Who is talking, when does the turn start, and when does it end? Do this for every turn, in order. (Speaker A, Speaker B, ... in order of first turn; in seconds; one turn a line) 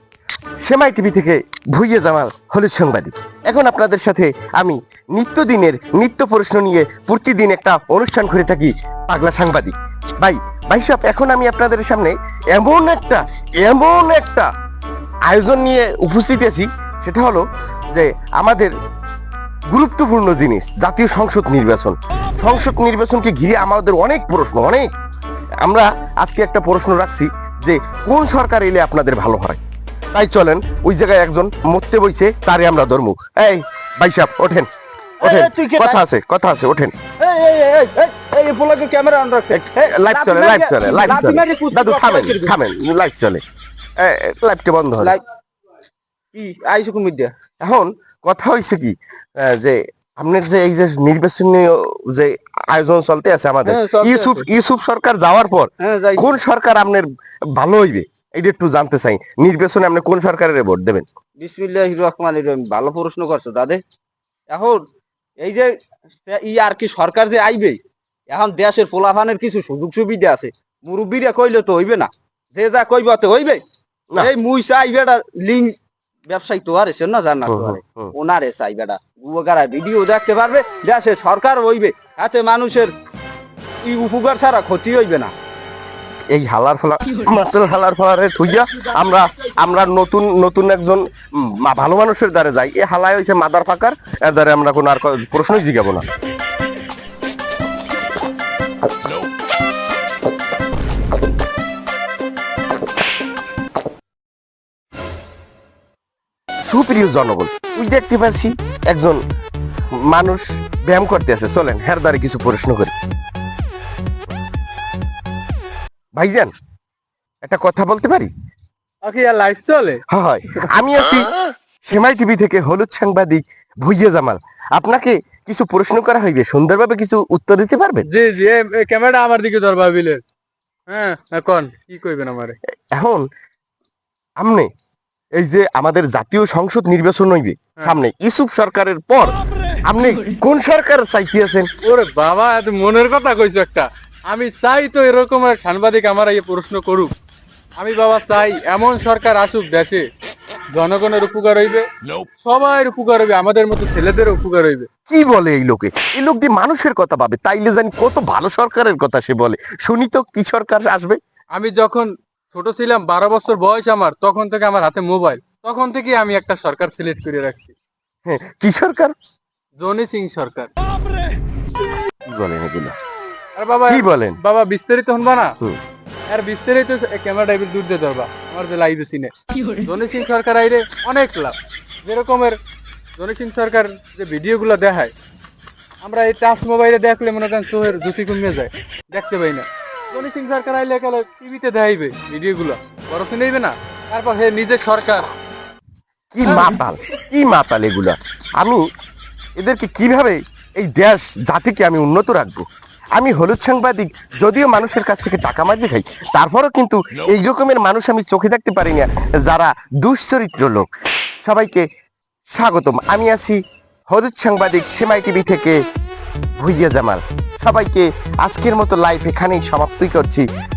Speaker A: 0.6-14.5
Speaker A: 15.3-18.7
Speaker A: 19.7-24.9
Speaker A: 25.6-29.6
Speaker A: 30.1-34.7
Speaker B: 35.2-36.0
Speaker A: 35.2-36.9
Speaker B: 37.2-42.5
Speaker A: 39.5-43.4
Speaker A: 44.0-45.1
Speaker B: 46.3-47.3
Speaker A: 47.6-61.0
Speaker B: 53.6-54.5
Speaker B: 55.8-56.3
Speaker B: 61.4-63.8
Speaker B: 64.5-64.8
Speaker B: 65.4-65.7
Speaker B: 66.2-73.6
Speaker B: 74.1-75.7
Speaker B: 76.3-82.9
Speaker A: 77.5-78.1
Speaker B: 83.8-85.3
Speaker A: 86.3-96.1
Speaker A: 106.7-109.2
Speaker A: 109.9-112.9
Speaker A: 116.1-116.5
Speaker A: 117.4-118.3
Speaker C: 119.0-120.0
Speaker A: 120.1-121.3
Speaker A: 121.8-128.1
Speaker C: 128.1-130.2
Speaker C: 130.9-132.6
Speaker A: 132.9-133.2
Speaker A: 134.4-134.7
Speaker A: 135.3-141.7
Speaker C: 141.8-147.1
Speaker C: 147.8-150.0
Speaker C: 150.7-151.9
Speaker C: 152.4-154.9
Speaker A: 155.1-161.2
Speaker C: 161.5-167.7
Speaker A: 168.2-169.1
Speaker C: 169.8-170.7
Speaker A: 172.3-172.9
Speaker C: 173.6-175.6
Speaker A: 173.9-174.4
Speaker C: 176.3-182.6
Speaker C: 183.2-185.1
Speaker C: 186.0-195.3
Speaker A: 196.3-198.8
Speaker A: 199.6-202.6
Speaker A: 203.2-210.9
Speaker A: 211.4-211.8
Speaker A: 212.5-215.8
Speaker A: 216.6-220.5